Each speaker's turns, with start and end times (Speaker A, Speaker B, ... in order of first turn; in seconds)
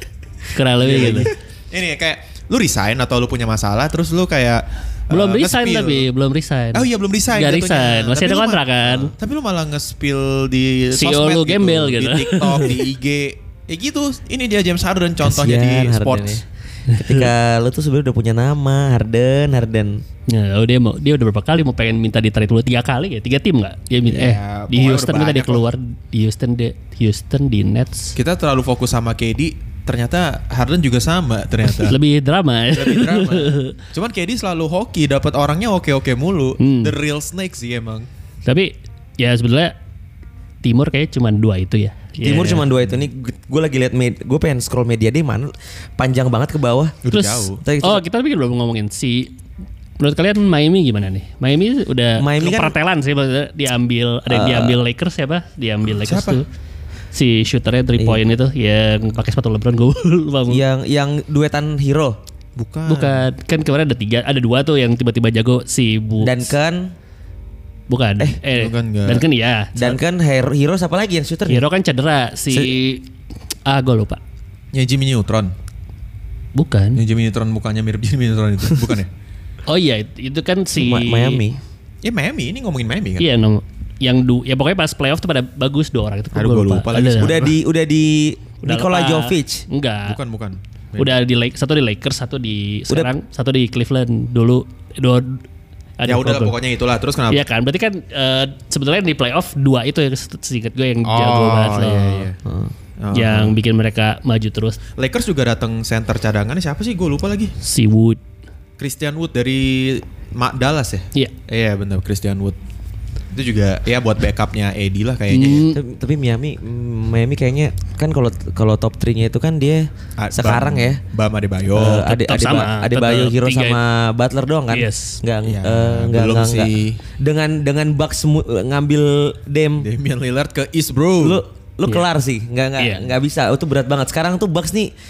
Speaker A: 0.5-1.3, 5.1-9.1, 10.9-12.8, 16.9-17.3, 20.3-28.2, 31.6-33.8, 36.6-36.9, 38.5-39.7, 40.6-42.6, 47.1-49.3, 50.0-56.5, 57.1-60.6, 62.9-66.5, 67.9-70.0, 71.5-73.1, 73.7-74.2, 76.5-77.0, 79.7-81.4, 83.2-87.5, 88.6-90.2, 91.0-95.4, 96.0-96.5, 97.3-102.3, 103.1-104.8, 107.6-108.2, 115.3-115.8, 122.0-123.8, 124.7-125.2, 132.8-133.1
Speaker B: 0.8-6.1, 6.7-16.4, 24.1-25.7, 28.1-32.0, 32.7-38.1, 47.0-47.6, 55.9-56.4, 62.5-63.3, 68.5-69.2, 74.7-75.5, 77.0-79.1, 82.0-83.2, 86.3-87.5, 90.0-91.2, 96.0-97.4, 101.0-102.4, 103.0-103.6, 105.0-107.5, 108.8-112.6, 113.3-115.7, 120.2-122.1, 125.4-127.0, 129.8-131.4
Speaker C: 15.2-20.0, 42.2-47.0, 47.6-48.0, 52.2-52.7, 54.3-54.8, 60.5-62.2, 66.2-66.9, 69.8-71.6, 80.7-81.6, 87.2-89.6, 102.4-102.7, 115.7-121.0, 121.7-129.9, 131.2-134.9